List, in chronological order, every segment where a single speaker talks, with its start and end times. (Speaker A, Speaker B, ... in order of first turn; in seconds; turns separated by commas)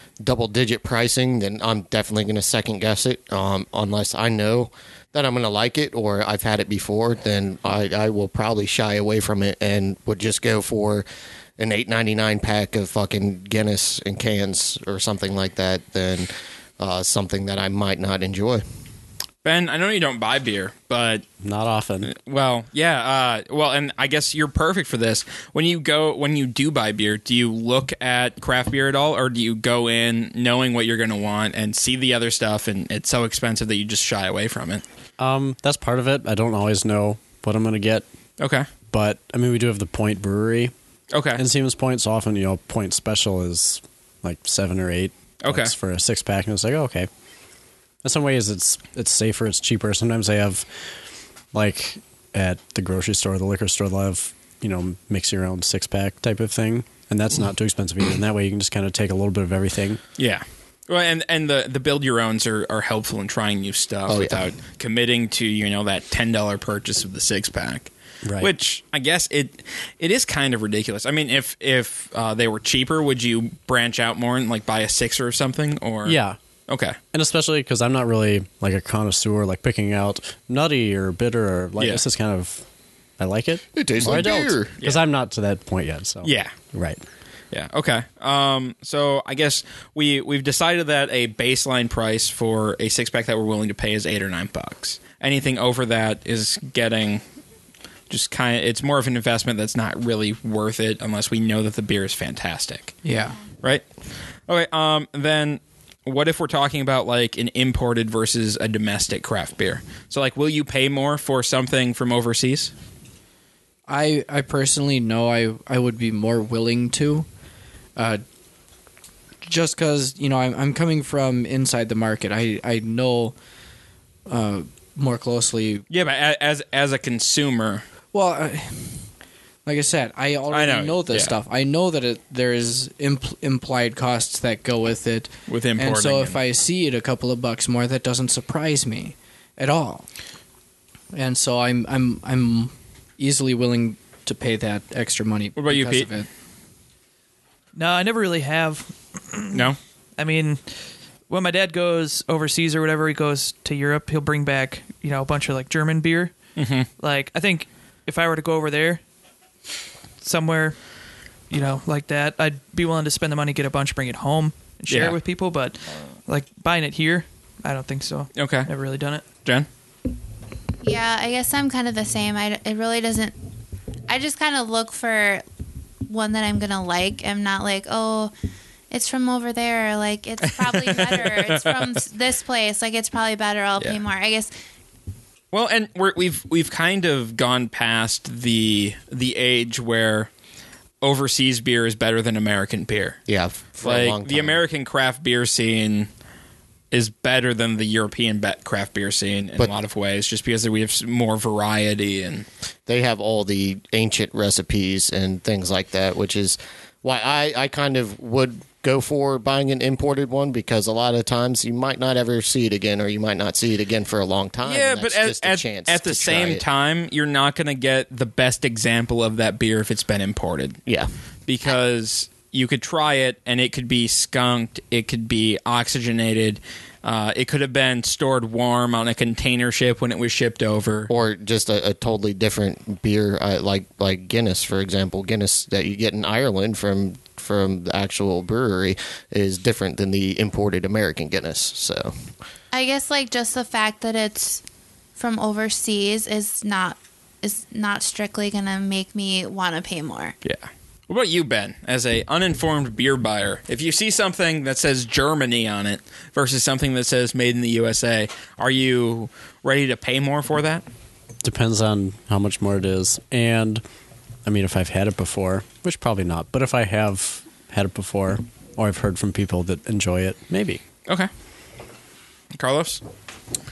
Speaker A: 0.2-11.1, Speaker A: 11.6-18.6, Speaker B: 19.4-21.2, Speaker C: 21.4-22.1, Speaker B: 22.1-34.8, Speaker C: 35.2-38.0, Speaker B: 38.4-38.7, Speaker C: 38.9-40.7, Speaker B: 41.1-41.4, Speaker C: 41.4-47.1, Speaker B: 45.4-45.7, Speaker C: 48.0-50.7, Speaker C: 51.5-60.0, Speaker B: 60.2-77.0, Speaker A: 64.1-64.5, Speaker C: 68.2-68.5, Speaker C: 76.0-76.4, Speaker C: 77.1-82.6, Speaker C: 83.2-87.0, Speaker A: 83.8-84.7, Speaker B: 86.2-86.5, Speaker B: 87.5-97.2, Speaker B: 98.1-103.0, Speaker D: 103.0-103.4, Speaker B: 104.5-112.7, Speaker D: 113.9-117.3, Speaker D: 118.0-118.2, Speaker D: 119.5-123.3, Speaker D: 124.3-125.8, Speaker B: 125.9-127.8, Speaker D: 128.1-129.1, Speaker D: 129.7-140.1, Speaker B: 130.5-131.4, Speaker B: 135.5-136.4, Speaker D: 141.1-146.3, Speaker B: 145.6-146.1, Speaker E: 147.8-156.4, Speaker B: 149.5-149.8, Speaker B: 156.6-156.9, Speaker E: 157.0-159.0, Speaker E: 160.2-160.8, Speaker E: 161.5-169.2, Speaker B: 164.9-165.2, Speaker B: 168.4-168.7, Speaker F: 170.8-173.3, Speaker F: 174.1-175.4, Speaker F: 176.1-178.3, Speaker F: 178.9-184.5, Speaker B: 180.4-182.0, Speaker B: 185.5-190.3, Speaker B: 191.0-193.2, Speaker A: 193.3-194.6, Speaker B: 193.8-196.1, Speaker B: 196.9-202.5, Speaker A: 202.9-216.6, Speaker B: 214.6-220.8, Speaker B: 221.5-231.1, Speaker A: 231.1-242.1, Speaker F: 242.7-244.6, Speaker F: 245.2-250.3, Speaker B: 250.4-260.9, Speaker C: 261.4-263.8, Speaker C: 264.4-270.8, Speaker B: 272.5-273.0